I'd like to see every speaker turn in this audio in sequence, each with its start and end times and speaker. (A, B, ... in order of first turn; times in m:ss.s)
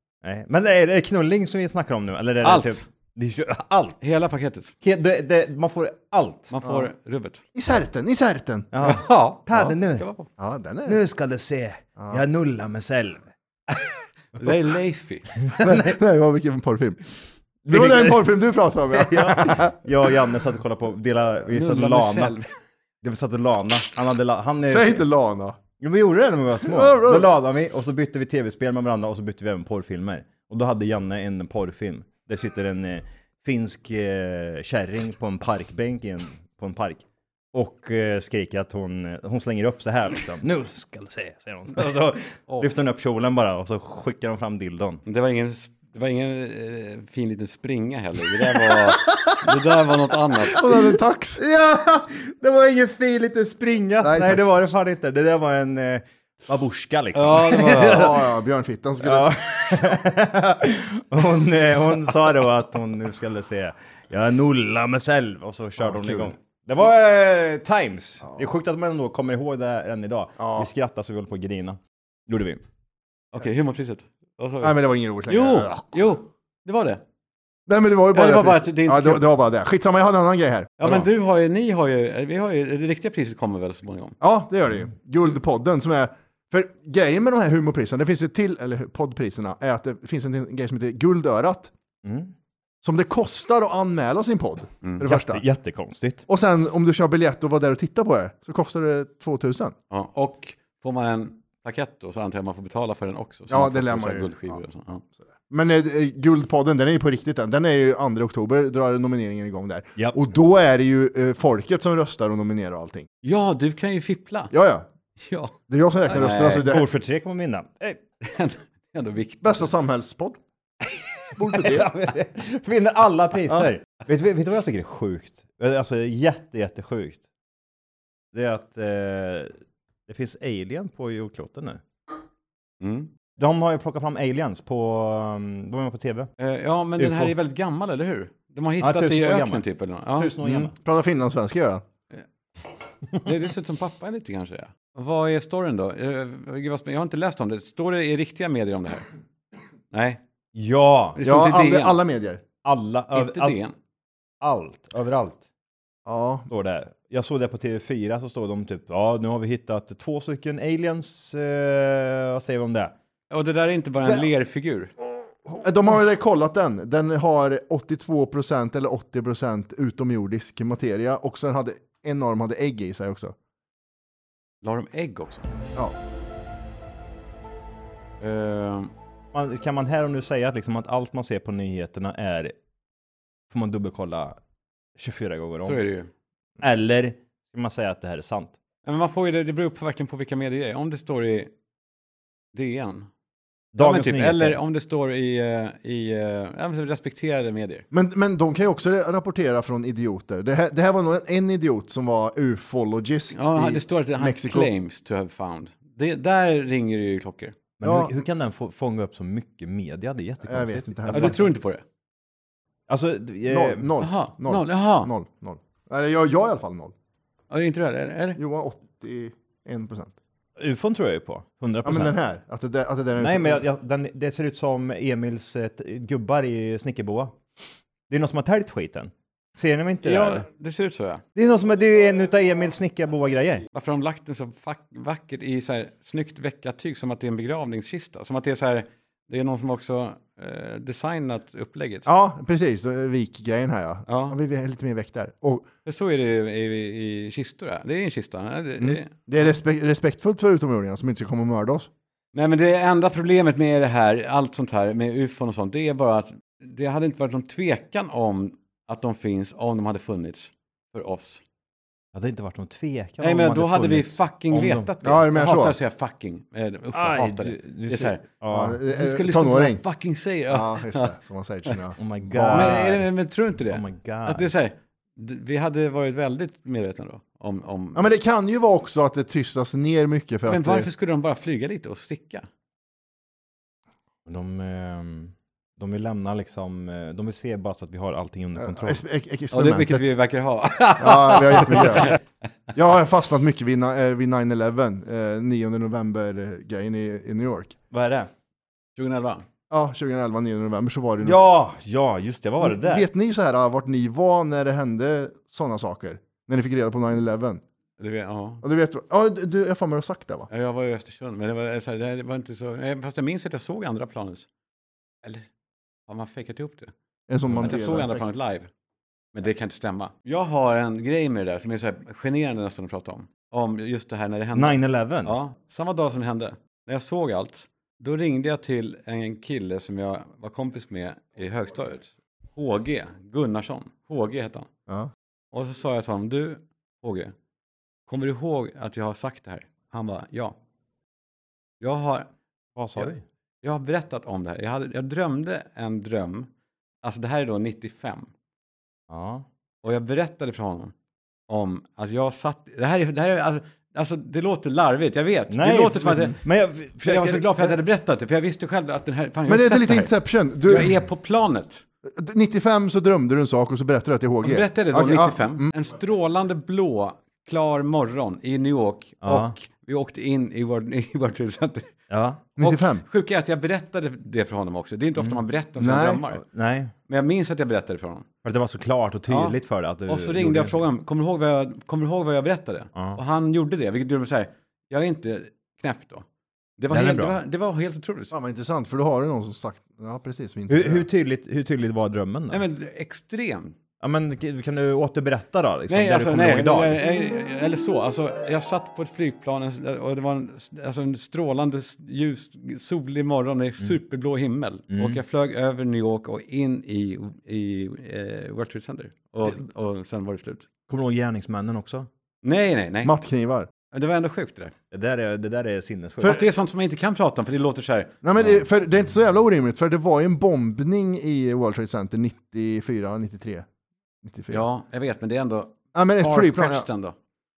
0:00.2-0:04.1 A
0:02.4-0:02.8 B
0:04.0-0:04.7 B
0:04.8-0:06.5 A
0:06.5-0:07.4 B
0:06.6-0:06.9 C
0:07.5-0:08.7 C
0:08.7-0:10.1 A
0:08.8-0:10.3 B
0:10.4-0:11.0 C
0:10.9-0:13.3 A
0:12.0-0:12.2 C
0:13.8-0:15.3 B
0:15.4-0:16.0 A
0:15.6-0:17.0 C
0:17.6-0:22.5 A
0:17.7-0:20.1 C
0:21.5-0:22.5 B
0:23.0-0:25.0 A
0:24.7-0:25.6 C
0:25.8-0:45.0 A
0:26.6-0:27.3 C
0:45.0-0:50.7 B
0:50.4-0:51.4 C
0:51.4-0:58.2 A
0:54.0-0:54.5 C
0:57.2-0:58.1 B
0:57.8-0:59.3 C
0:59.0-1:12.6 A
1:05.8-1:06.3 C
1:10.4-1:10.7 C
1:13.3-1:17.0 B
1:14.6-1:16.1 C
1:17.7-1:21.1 C
1:18.1-1:19.3 B
1:20.8-1:24.2 B
1:24.2-1:31.7 C
1:32.0-1:32.3 A
1:32.8-1:35.4 C
1:35.0-1:36.3 A
1:36.3-1:39.8 C
1:39.9-1:45.0 B
1:43.5-1:44.6 C
1:45.5-1:53.1 C
1:53.2-1:54.5 B
1:54.5-1:54.8 C
1:55.2-1:56.6 B
1:55.7-1:56.9 C
1:56.6-1:58.0 A
1:58.2-1:59.7 B
1:59.4-2:00.4 C
2:01.4-2:02.0 C
2:01.5-2:07.2 A
2:08.3-2:09.5 A
2:10.1-2:11.8 A
2:12.8-2:13.1 B
2:13.4-2:16.3 A
2:16.4-2:20.3 B
2:17.0-2:17.3 A
2:18.8-2:20.7 A
2:20.4-2:21.8 C
2:23.2-2:29.1 B
2:29.9-2:30.2 B
2:30.5-2:31.2 A
2:31.2-2:32.0 B
2:31.2-2:32.4 C
2:32.6-2:33.6 A
2:33.1-2:33.8 B
2:34.4-2:35.4 A
2:36.1-2:36.5 C
2:36.5-2:42.9 A
2:43.3-2:44.9 B
2:45.5-2:53.4 C
2:54.6-2:55.5 B
2:58.2-2:58.9 B
2:59.3-3:02.6 A
3:03.5-3:04.4 A
3:05.0-3:05.8 A
3:05.6-3:06.1 B
3:06.6-3:08.6 A
3:08.8-3:11.5 B
3:12.5-3:13.1 B
3:13.7-3:14.6 A
3:13.8-3:17.9 B
3:17.9-3:24.7 C
3:23.3-3:27.6 B
3:27.8-3:31.4 A
3:27.8-3:28.2 C
3:30.5-3:31.4 C
3:31.1-3:31.8 B
3:32.9-3:33.9 A
3:33.5-3:36.9 C
3:34.0-3:35.1 B
3:37.5-3:38.4 B
3:38.4-3:40.2 C
3:40.6-3:42.2 A
3:41.8-3:43.6 C
3:43.2-3:47.4 A
3:48.1-3:50.5 A
3:50.0-3:51.2 B
3:51.4-3:53.7 A
3:53.7-4:02.1 B
4:02.1-4:05.7 C
4:04.1-4:04.4 B
4:05.9-4:09.1 B
4:08.8-4:11.9 C
4:12.3-4:21.4 B
4:22.1-4:24.9 A
4:23.2-4:28.2 B
4:25.0-4:25.8 C
4:26.9-4:28.8 A
4:28.5-4:29.8 C
4:28.9-4:31.1 B
4:30.5-4:32.8 C
4:32.0-4:33.1 A
4:32.5-4:38.1 B
4:33.6-4:34.5 A
4:38.0-4:40.9 C
4:40.5-4:42.5 B
4:44.3-4:49.0 A
4:48.6-4:50.1 C
4:49.5-4:52.2 B
4:51.0-4:52.2 C
4:51.8-4:52.1 A
4:52.7-4:57.8 C
4:57.9-4:58.3 A
4:59.0-4:59.5 B
4:59.7-5:01.4 C
5:01.2-5:03.1 A
5:02.6-5:07.6 C
5:08.0-5:08.6 B
5:08.6-5:10.5 C
5:10.5-5:14.5 B
5:16.1-5:16.9 B
5:17.3-5:18.2 C
5:17.5-5:18.1 A
5:17.6-5:18.7 B
5:19.3-5:34.7 B
5:24.5-5:25.4 A
5:35.5-5:37.3 B
5:38.1-5:40.6 B
5:41.8-5:42.3 B
5:42.8-5:43.2 A
5:43.0-5:46.5 B
5:47.0-5:48.3 B
5:49.1-5:49.5 A
5:49.8-5:50.9 B
5:51.5-5:56.4 B
5:55.5-5:57.6 A
5:57.0-6:00.1 B
5:59.5-6:00.9 C
6:00.7-6:01.8 B
6:02.1-6:05.7 C
6:04.4-6:12.0 B
6:09.2-6:09.5 A
6:12.1-6:12.4 A
6:12.6-6:13.0 C
6:12.6-6:16.4 B
6:15.8-6:16.2 C
6:16.3-6:16.9 A
6:17.1-6:18.3 B
6:18.4-6:20.8 A
6:19.3-6:26.2 B
6:23.0-6:23.2 A
6:26.8-6:28.3 B
6:26.9-6:27.4 A
6:28.3-6:31.0 C
6:30.7-6:32.6 A
6:32.5-6:33.7 B
6:34.0-6:37.0 A
6:35.9-6:50.7 B
6:44.9-6:45.2 A
6:50.9-6:52.1 A
6:52.4-6:53.1 B
6:53.0-6:53.7 C
6:53.9-6:54.7 B
6:54.9-6:56.4 A
6:56.2-6:58.6 B
6:58.2-7:03.6 C
7:04.2-7:04.6 C
7:04.5-7:07.2 B
7:05.9-7:06.9 C